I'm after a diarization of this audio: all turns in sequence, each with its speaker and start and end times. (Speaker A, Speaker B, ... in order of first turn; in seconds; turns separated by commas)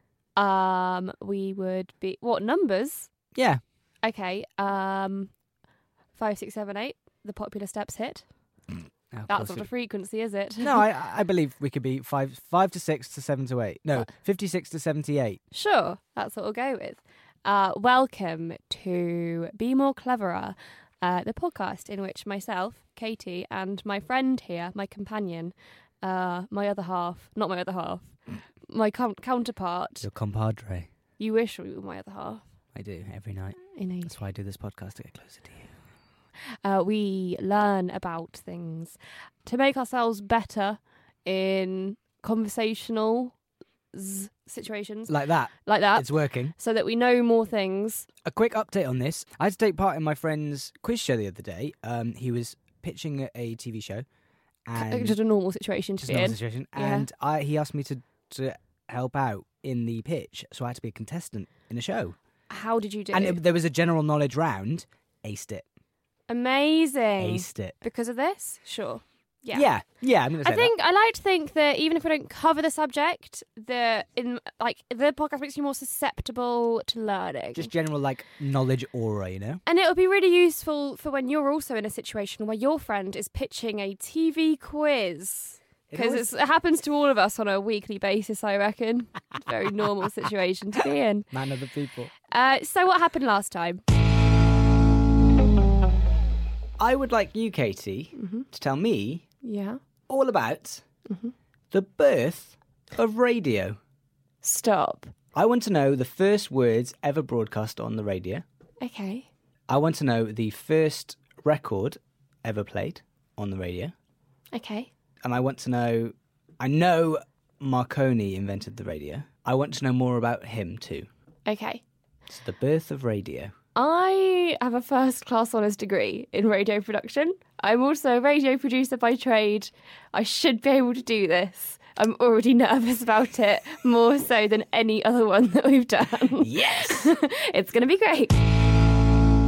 Speaker A: 0.3-3.1, Speaker B: 3.3-3.6, Speaker A: 4.0-5.3, Speaker A: 6.2-8.2, Speaker B: 9.1-9.7, Speaker A: 9.3-10.8, Speaker B: 10.6-15.4, Speaker A: 15.5-28.1, Speaker A: 28.7-30.1, Speaker B: 30.0-30.9, Speaker A: 31.2-32.5, Speaker B: 32.7-35.8, Speaker A: 33.7-34.1, Speaker A: 36.6-43.3, Speaker A: 43.9-48.1, Speaker B: 45.1-46.5, Speaker B: 48.2-54.0, Speaker B: 54.7-55.1, Speaker A: 54.7-57.1, Speaker B: 56.0-62.1, Speaker A: 62.5-63.4, Speaker B: 63.1-65.7, Speaker A: 66.3-69.7, Speaker B: 67.2-67.8, Speaker B: 69.5-70.7, Speaker A: 70.4-77.7, Speaker B: 77.5-79.6, Speaker A: 79.7-91.3, Speaker B: 85.9-86.3, Speaker B: 91.3-92.1, Speaker A: 92.3-93.8, Speaker B: 96.8-99.3, Speaker A: 98.1-98.5, Speaker A: 99.4-99.8, Speaker B: 100.1-100.8, Speaker A: 101.1-101.3, Speaker B: 101.7-103.8, Speaker A: 104.4-105.1, Speaker B: 105.3-108.4, Speaker A: 108.8-109.3, Speaker B: 109.7-113.9, Speaker A: 114.5-114.9, Speaker B: 115.2-121.1, Speaker A: 121.5-121.8, Speaker B: 122.3-123.5, Speaker A: 123.8-138.4, Speaker B: 136.4-137.1